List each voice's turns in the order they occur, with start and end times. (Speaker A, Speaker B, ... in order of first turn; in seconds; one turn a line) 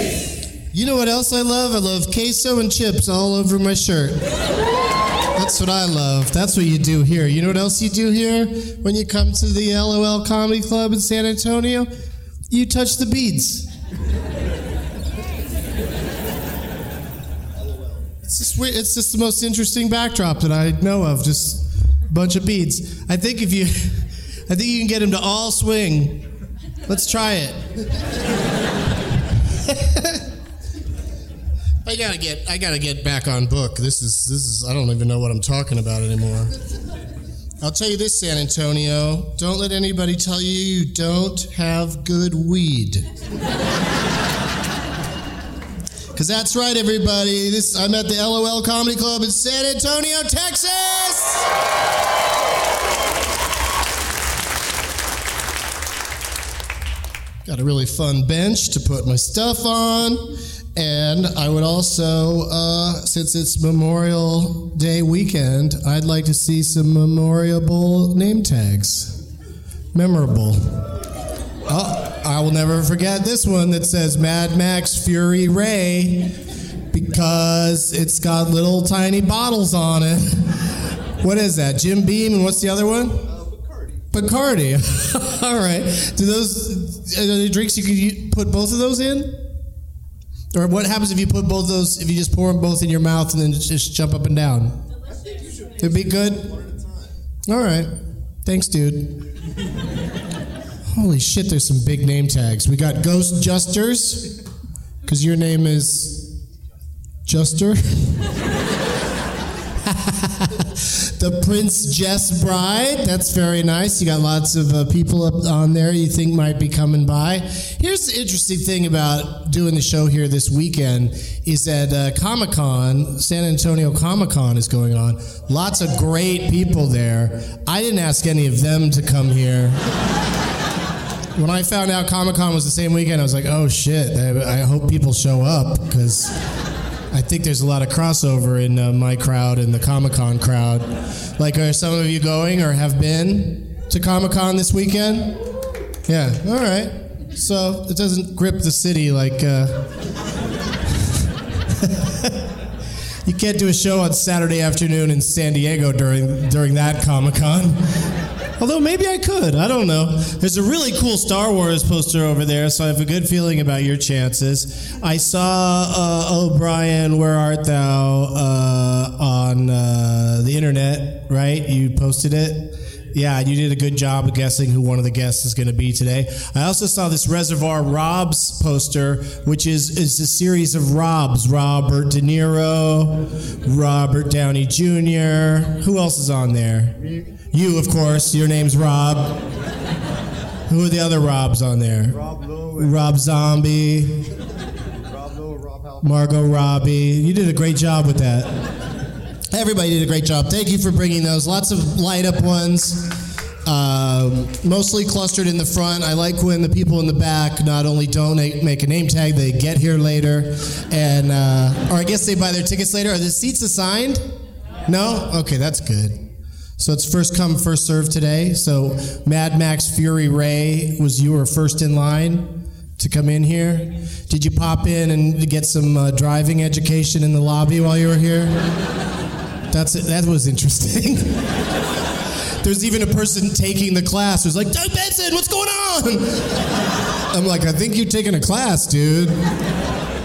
Speaker A: 0.7-4.2
Speaker A: 5.3-11.9
Speaker A: 12.5-13.7
Speaker A: 18.2-26.3
Speaker A: 26.9-27.8
Speaker A: 29.7-30.2
Speaker A: 31.8-36.5
Speaker A: 37.6-43.0
Speaker A: 46.1-51.5
Speaker A: 57.4-69.2
Speaker A: 69.9-70.9
Speaker A: 71.7-76.4
Speaker A: 76.9-80.7
Speaker A: 81.2-83.3
Speaker A: 84.1-89.5
Speaker A: 90.5-94.8
Speaker A: 95.8-96.6
Speaker A: 97.5-97.9
Speaker A: 98.4-99.2
Speaker A: 100.9-104.4
Speaker A: 105.0-106.3
Speaker A: 107.2-108.2
Speaker A: 109.8-129.8
Speaker A: 131.3-136.3
Speaker A: 137.1-145.4
Speaker A: 146.1-149.9
Speaker A: 151.8-152.4
Speaker A: 153.2-157.8
Speaker A: 158.6-189.5
Speaker A: 190.7-194.3
Speaker A: 196.0-198.6
Speaker A: 199.5-214.2
Speaker A: 214.9-216.3
Speaker A: 216.8-228.7
Speaker A: 229.7-231.4
Speaker A: 232.6-236.6
Speaker A: 237.3-239.4